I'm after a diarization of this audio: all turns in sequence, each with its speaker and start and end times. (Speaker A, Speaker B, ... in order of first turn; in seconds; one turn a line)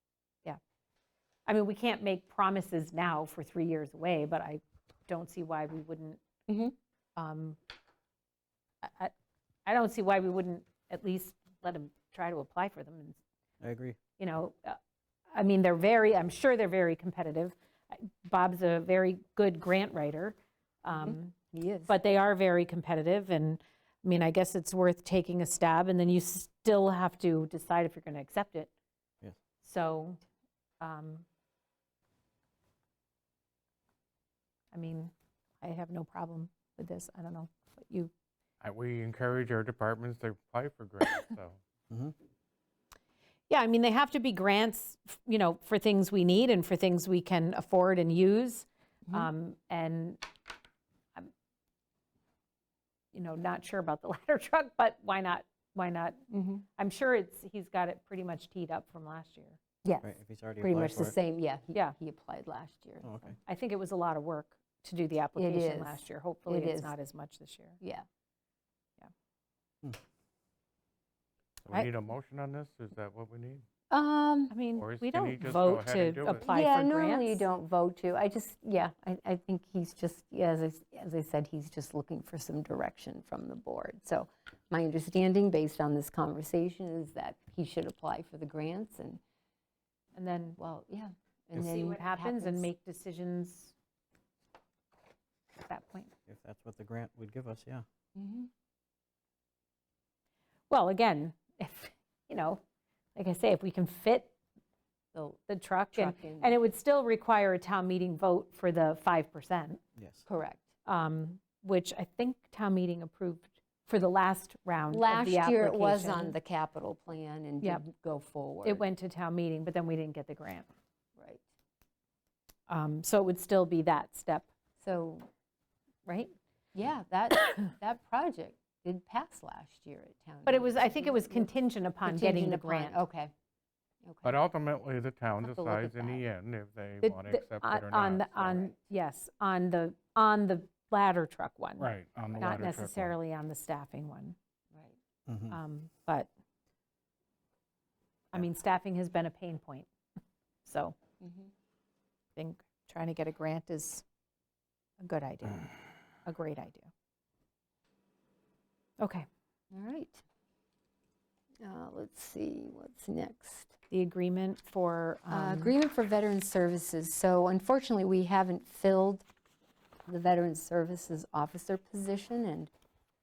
Speaker A: 1.4-6.2
Speaker B: 6.5-6.7
Speaker A: 7.2-7.6
Speaker A: 8.8-9.1
Speaker A: 9.7-13.2
Speaker C: 13.6-14.0
Speaker A: 14.2-14.8
Speaker A: 15.3-21.3
Speaker B: 20.9-21.9
Speaker A: 21.9-28.7
Speaker A: 29.6-30.2
Speaker A: 30.8-31.2
Speaker A: 34.7-38.1
Speaker D: 38.6-41.6
Speaker A: 43.5-50.2
Speaker A: 53.1-59.6
Speaker B: 56.3-56.6
Speaker C: 60.0-61.1
Speaker B: 60.6-63.3
Speaker C: 63.0-63.4
Speaker A: 63.5-67.8
Speaker B: 65.3-66.9
Speaker D: 71.6-73.7
Speaker B: 73.9-74.5
Speaker A: 74.5-77.5
Speaker D: 74.8-76.5
Speaker B: 76.4-89.2
Speaker A: 90.1-90.6
Speaker B: 90.6-92.7
Speaker A: 91.5-93.7
Speaker A: 95.7-96.1
Speaker C: 96.3-97.8
Speaker B: 98.1-98.5
Speaker A: 100.7-102.6
Speaker A: 103.1-104.3
Speaker A: 105.2-109.8
Speaker B: 105.9-106.6
Speaker C: 110.0-110.2
Speaker B: 110.2-110.7
Speaker A: 110.8-116.3
Speaker B: 114.9-118.8
Speaker A: 118.6-120.7
Speaker B: 121.2-121.4
Speaker A: 122.7-124.5
Speaker B: 124.8-125.3
Speaker A: 126.0-126.3
Speaker B: 126.7-131.5
Speaker A: 130.4-133.0
Speaker B: 132.0-133.3
Speaker B: 134.0-134.4
Speaker D: 134.2-138.7
Speaker B: 135.4-136.2
Speaker A: 137.0-144.3
Speaker D: 141.8-143.2
Speaker C: 145.3-145.6
Speaker A: 145.5-146.3
Speaker A: 148.3-149.9
Speaker A: 150.6-150.9
Speaker B: 151.2-151.5
Speaker A: 152.3-154.0
Speaker A: 155.0-155.7
Speaker A: 156.2-156.9
Speaker A: 159.0-159.2
Speaker B: 159.7-160.2
Speaker B: 161.6-163.8
Speaker A: 163.9-165.7
Speaker B: 165.3-169.3
Speaker B: 170.1-172.7